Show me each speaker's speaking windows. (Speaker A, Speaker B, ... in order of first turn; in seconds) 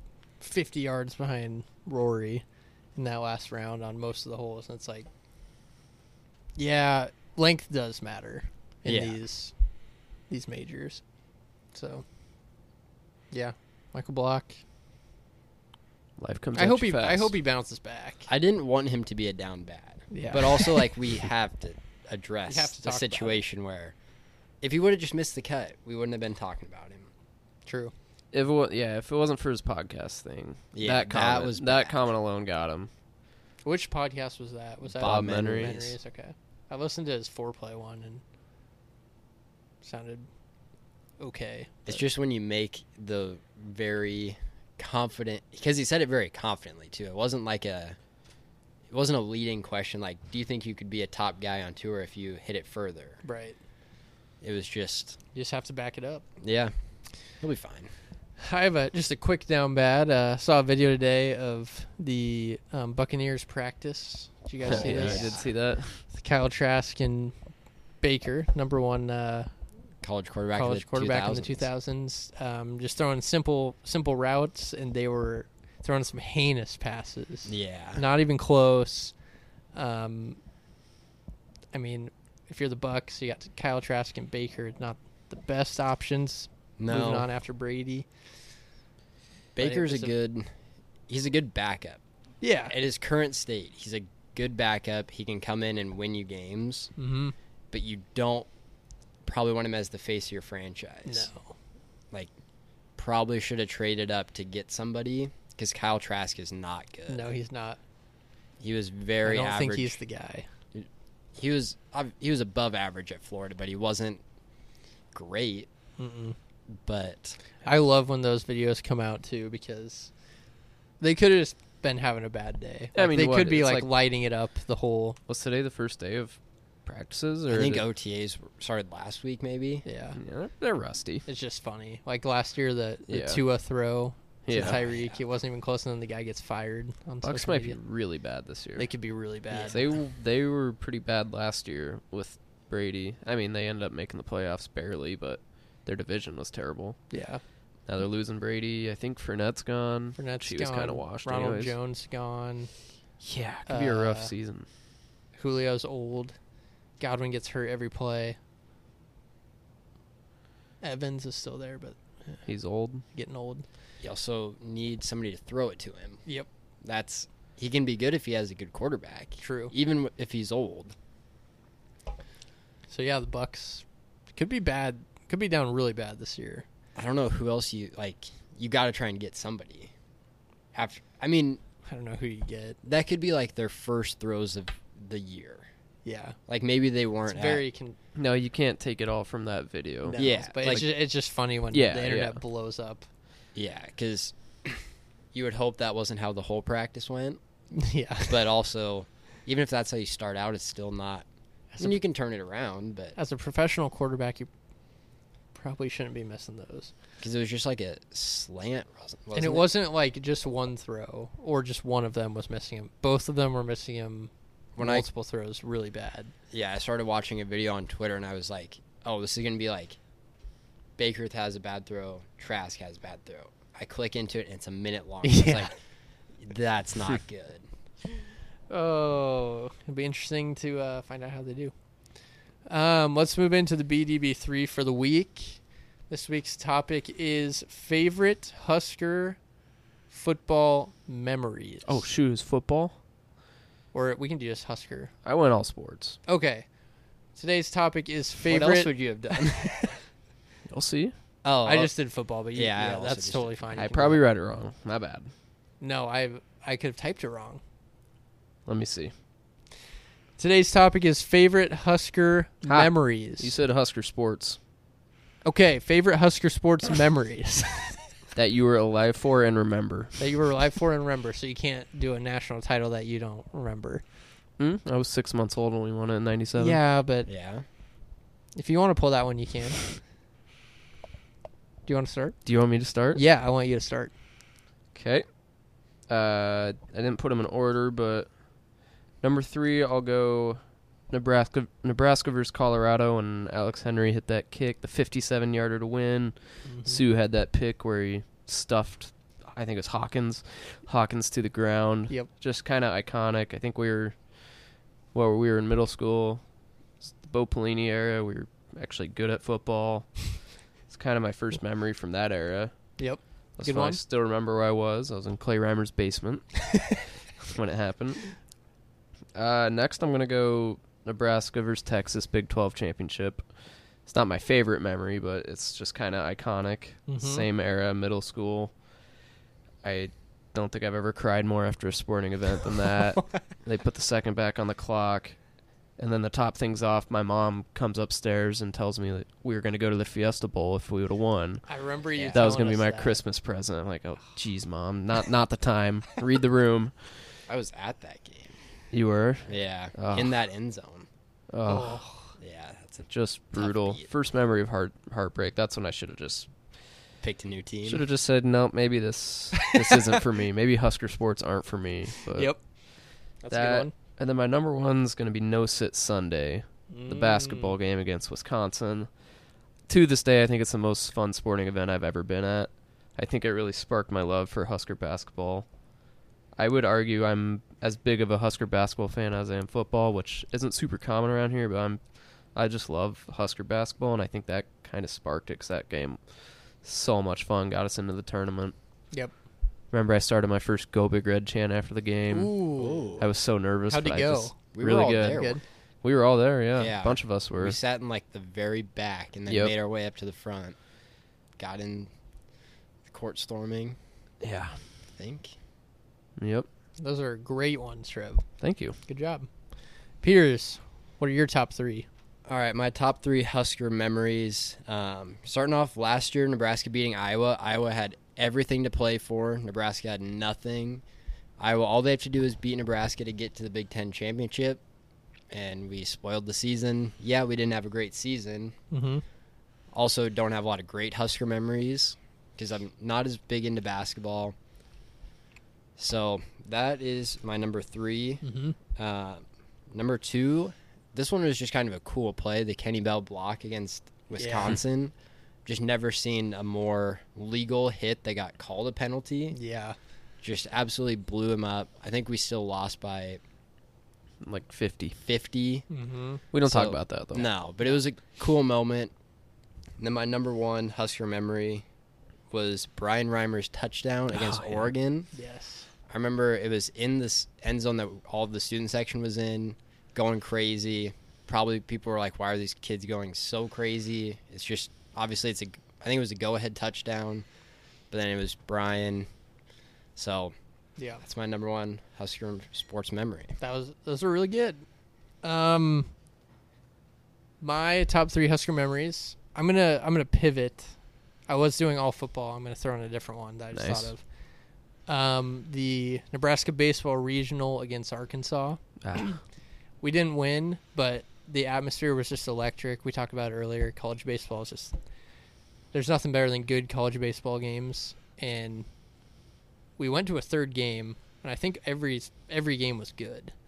Speaker A: 0.4-5.1, 6.5-9.5, 10.3-11.0, 11.7-12.0, 13.3-14.6, 16.5-18.3, 20.1-20.9, 22.5-23.4, 27.6-27.9, 33.6-38.2, 39.8-40.3, 41.2-42.0, 53.2-53.6, 55.3-56.2, 58.4-65.4, 66.1-67.3, 68.0-69.5, 70.5-79.1, 79.7-80.4, 81.7-88.1, 89.6-90.1, 92.4-92.7, 97.0-97.3, 101.0-101.5, 107.1-107.8, 109.2-110.5, 116.0-116.4, 117.6-120.1, 121.0-125.2, 129.8-130.2, 131.2-137.8, 138.8-139.9, 147.1-147.4, 150.2-152.7, 153.7-154.3, 155.3-156.4, 157.0-158.4, 160.8-162.4, 163.1-163.6, 169.4-169.7, 172.9-176.7, 181.8-182.8, 186.0-186.4, 187.3-188.0, 190.1-193.0, 197.7-198.4, 201.7-202.0, 203.2-204.5, 205.5-206.9, 209.3-216.3, 225.2-225.7, 228.7-231.7, 232.6-239.4, 240.1-242.0, 243.9-245.1, 246.2-246.7, 247.3-250.0, 251.6-254.2, 255.8-257.6, 260.4-263.5, 265.4-268.1, 270.2-274.0, 276.6-277.3, 278.5-279.9, 281.9-282.5, 283.1-284.1, 296.6-297.0, 313.0-314.0, 327.1-327.4, 341.7-343.2, 351.6-352.3, 359.7-360.1, 362.3-362.6, 363.4-363.9, 366.9-367.7, 392.3-393.1, 393.9-394.6, 395.3-395.6, 407.0-408.4, 409.1-409.5, 410.2-412.1, 428.9-429.2, 438.4-438.8, 444.4-444.8, 449.5-449.9, 455.9-456.4, 465.3-465.9, 481.0-481.2, 483.6-484.9, 485.4-486.1, 487.6-490.9, 491.5-494.2, 495.1-499.4, 500.0-504.9, 505.9-508.9, 510.0-513.5
Speaker B: 8.9-9.2, 18.3-23.9, 24.6-27.1, 30.7-32.0, 34.9-35.9, 41.9-48.0, 48.9-53.2, 54.4-55.2, 56.4-56.7, 57.4-57.9, 64.6-65.5, 70.0-71.7, 77.5-78.0, 86.8-87.3, 89.5-90.5, 91.1-92.0, 92.7-96.9, 97.7-98.5, 99.2-101.3, 103.0-107.3, 108.6-110.0, 110.7-114.2, 115.1-115.7, 116.7-117.4, 127.5-129.8, 134.5-135.2, 164.0-166.2, 166.8-170.9, 176.9-179.9, 180.7-181.6, 182.8-185.7, 186.5-187.6, 190.2-190.9, 193.5-197.4, 198.3-201.2, 201.8-203.2, 207.2-209.7, 214.8-215.1, 216.5-220.0, 221.0-225.7, 226.4-227.7, 248.4-249.7, 251.4-251.9, 252.5-253.5, 277.3-277.6, 342.1-342.4, 347.5-348.6, 349.5-351.1, 352.4-354.1, 357.2-358.0, 392.8-393.2, 394.7-395.6, 396.7-400.8, 401.6-402.1, 403.1-404.0, 405.1-405.5, 412.4-421.0, 421.6-424.8, 425.5-428.7, 429.9-434.5, 436.0-438.4, 438.9-445.1, 445.6-449.6, 450.4-453.4, 455.2-455.9, 456.6-459.1, 460.0-461.9, 462.5-465.3, 466.1-477.4, 478.1-479.3, 480.1-480.5, 481.2-483.6
Speaker C: 16.2-17.4, 28.3-32.9, 35.0-35.8, 64.7-66.0, 122.9-123.9, 125.3-127.8, 130.2-131.2, 133.1-133.4, 134.4-134.8, 137.2-138.9, 139.5-147.0, 147.9-151.7, 153.2-154.7, 162.4-163.0, 188.1-190.9, 191.7-192.4, 241.9-242.9, 245.2-246.2, 250.7-251.1, 253.7-255.3, 258.6-259.1, 262.6-264.6, 268.4-270.2, 274.6-276.8, 282.4-283.2, 284.9-285.4, 286.0-288.4, 289.2-304.5, 305.1-306.4, 307.0-312.9, 313.6-318.4, 319.4-323.5, 324.0-328.7, 329.8-335.4, 336.0-347.3, 348.9-350.3, 351.5-352.0, 353.1-356.5, 357.9-362.7, 363.5-369.2, 369.9-375.7, 376.6-382.0, 382.5-388.7, 389.9-392.6, 393.2-395.5, 396.0-397.8, 399.5-399.7, 404.4-404.8, 406.4-406.7, 408.6-409.0, 454.4-455.2, 456.5-457.5, 464.3-464.9, 493.7-494.1, 499.0-499.4